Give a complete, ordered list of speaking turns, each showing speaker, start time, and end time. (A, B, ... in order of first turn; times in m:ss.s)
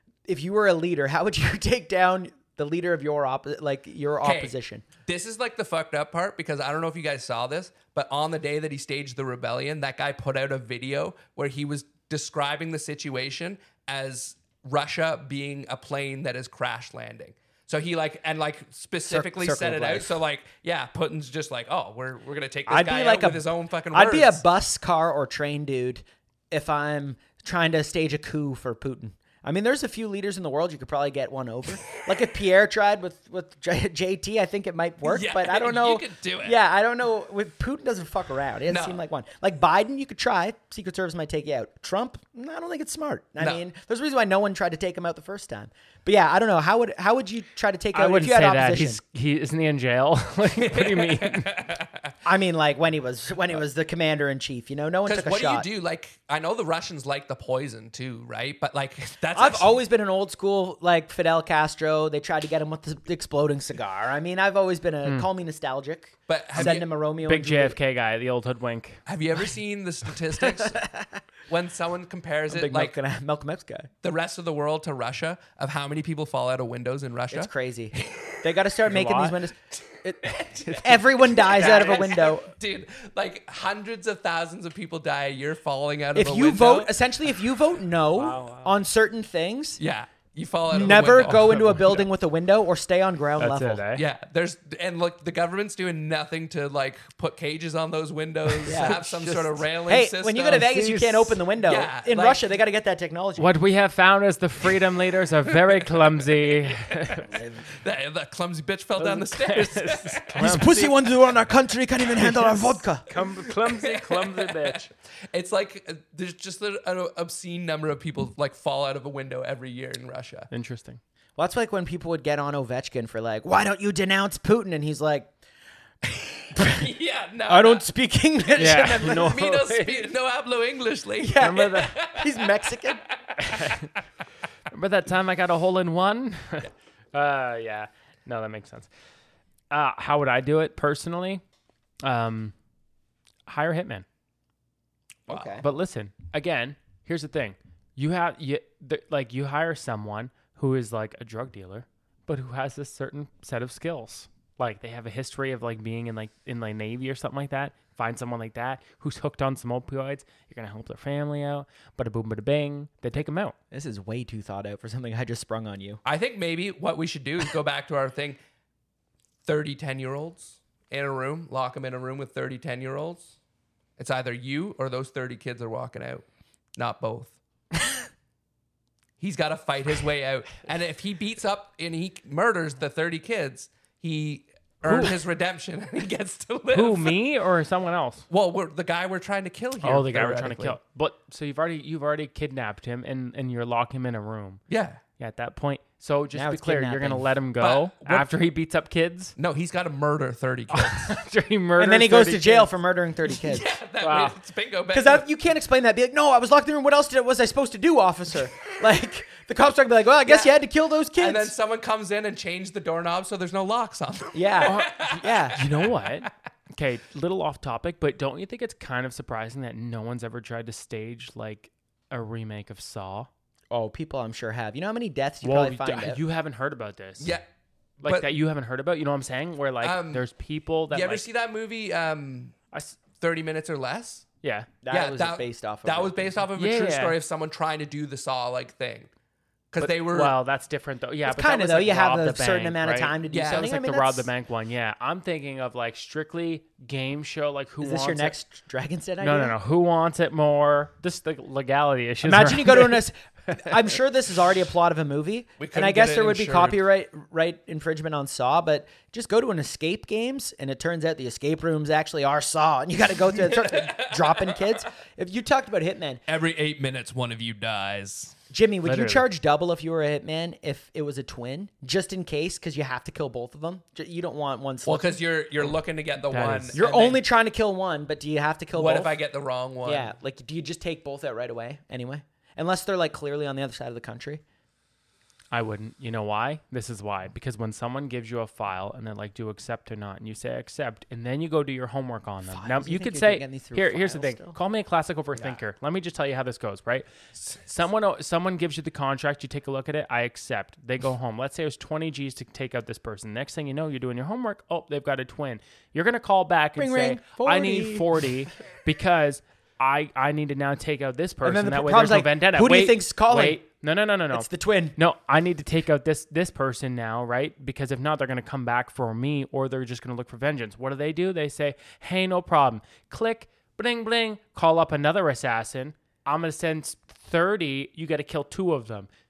0:00.3-0:04.8 A
0:04.2-0:04.5 B
0:05.1-0:24.4 B
0:19.1-0:20.2 A
0:22.7-0:49.0 A
0:35.0-0:36.6 B
0:38.7-0:39.0 B
0:47.9-0:51.5 C
0:50.6-0:52.1 B
0:52.2-0:55.7 A
0:55.1-0:59.7 B
0:59.3-1:07.8 A
1:06.3-1:06.9 B
1:06.6-1:09.0 C
1:09.1-1:10.8 B
1:10.6-1:11.0 A
1:11.5-1:13.0 B
1:12.5-1:13.9 A
1:14.0-1:17.5 B
1:17.3-1:22.5 A
1:18.9-1:19.4 C
1:20.2-1:26.9 B
1:26.2-1:29.8 A
1:28.2-1:28.8 C
1:29.8-1:32.0 B
1:30.7-1:33.8 A
1:33.4-1:34.0 C
1:34.0-1:40.8 B
1:38.5-1:39.6 C
1:38.6-1:39.1 A
1:39.9-1:43.5 A
1:40.5-1:41.4 C
1:41.6-1:42.4 B
1:43.4-1:47.3 C
1:45.5-1:50.7 B
1:47.3-1:47.7 A
1:49.0-1:50.9 C
1:50.4-1:53.1 A
1:52.2-1:54.9 C
1:53.5-2:00.5 B
2:00.5-2:01.0 C
2:01.4-2:05.3 A
2:06.5-2:06.9 A
2:06.6-2:07.8 B
2:07.5-2:09.4 A
2:08.5-2:13.8 B
2:08.6-2:10.1 C
2:11.2-2:13.0 A
2:11.4-2:11.9 C
2:13.4-2:13.9 C
2:14.7-2:18.9 C
2:19.7-2:21.4 C
2:22.0-2:22.5 C
2:23.5-2:24.0 C
2:25.3-2:25.6 A
2:25.3-2:25.6 B
2:25.6-2:43.6 C
2:43.7-2:46.0 A
2:46.0-2:48.4 B
2:49.4-2:53.3 B
2:54.0-2:56.2 B
2:56.8-2:57.4 B
2:59.2-3:07.2 B
3:04.8-3:05.2 C
3:06.7-3:08.3 C
3:08.3-3:10.8 B
3:09.8-3:14.6 C
3:14.7-3:15.0 B
3:15.2-3:19.4 C
3:16.3-3:17.3 A
3:17.6-3:18.3 B
3:19.4-3:21.2 B
3:20.7-3:22.7 C
3:21.8-3:23.7 A
3:23.3-3:25.3 B
3:24.0-3:24.4 C
3:24.9-3:31.5 A
3:30.3-3:30.5 B
3:31.2-3:36.3 B
3:34.3-3:35.6 A
3:34.6-3:43.3 C
3:43.7-3:46.2 A
3:45.4-3:47.4 C
3:48.0-3:51.2 C
3:48.0-3:48.3 B
3:49.8-3:50.2 B
3:50.9-3:52.6 B
3:52.7-3:53.0 C
3:53.2-3:54.2 B
3:54.4-3:54.7 C
3:54.8-3:56.3 A
3:54.9-3:59.1 B
3:56.6-3:57.2 C
3:59.7-4:00.4 B
3:59.8-4:08.4 C
4:01.3-4:04.3 A
4:03.3-4:03.7 B
4:07.8-4:09.6 A
4:09.2-4:13.6 C
4:12.2-4:26.2 A
4:15.6-4:16.8 B
4:23.4-4:24.7 B
4:26.3-4:28.4 B
4:28.5-4:35.7 A
4:28.8-4:29.2 C
4:34.8-4:37.2 B
4:36.3-4:36.8 C
4:36.8-4:39.2 A
4:38.7-4:40.1 B
4:39.8-4:44.4 A
4:45.5-5:29.1 C
4:52.5-4:54.6 A
5:06.8-5:08.1 A
5:11.4-5:13.6 A
5:14.3-5:15.0 A